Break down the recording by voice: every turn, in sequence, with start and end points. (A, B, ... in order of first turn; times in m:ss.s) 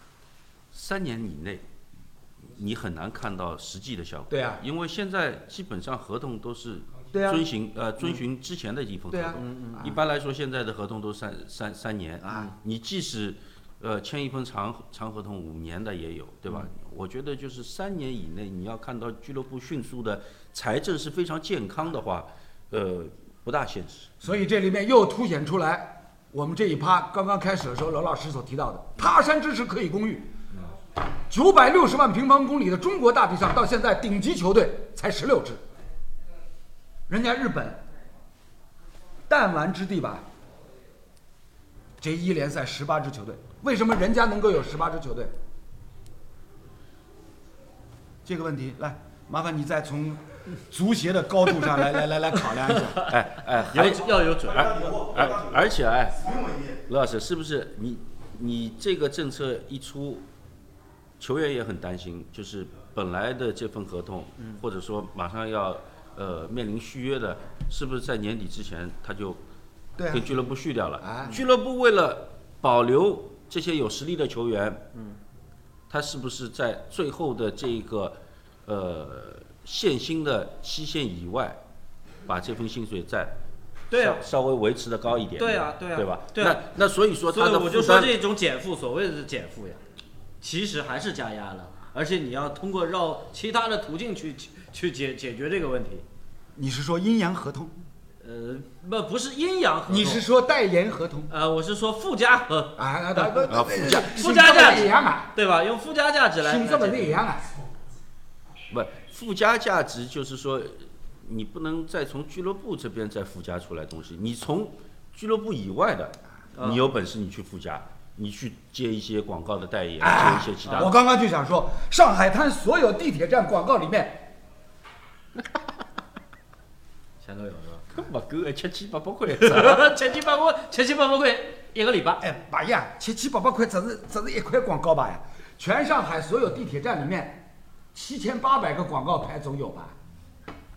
0:00.7-0:01.6 A
0:02.5-0:24.2 A
0:04.3-0:04.6 B
0:07.1-0:07.5 B
0:09.1-0:10.0 B
0:09.4-0:10.0 C
0:12.2-0:12.5 B
0:24.2-0:30.3 B
0:31.3-0:35.6 B
0:37.1-0:37.8 B
0:39.3-0:40.3 B
0:42.0-0:45.4 B
0:48.2-0:53.1 B
0:53.1-1:00.3 A
0:53.7-0:55.0 C
0:53.8-0:56.8 B
1:01.2-1:09.4 A
1:10.0-1:10.4 B
1:10.1-1:14.8 A
1:11.0-1:11.4 B
1:14.9-1:15.2 C
1:15.9-1:21.6 A
1:22.3-1:23.4 A
1:23.9-1:24.2 C
1:23.9-1:28.2 A
1:25.4-1:26.6 C
1:27.3-1:29.8 C
1:30.4-1:36.0 C
1:36.6-1:37.8 B
1:38.2-1:40.2 C
1:39.9-1:41.3 B
1:41.3-1:47.2 C
1:42.8-1:45.3 B
1:43.5-1:44.2 A
1:46.4-1:47.5 B
1:48.7-2:01.0 A
1:56.6-1:56.9 C
2:00.0-2:04.3 B
2:00.6-2:00.9 C
2:07.2-2:07.9 C
2:07.9-2:09.9 A
2:09.3-2:12.2 C
2:12.2-2:20.0 B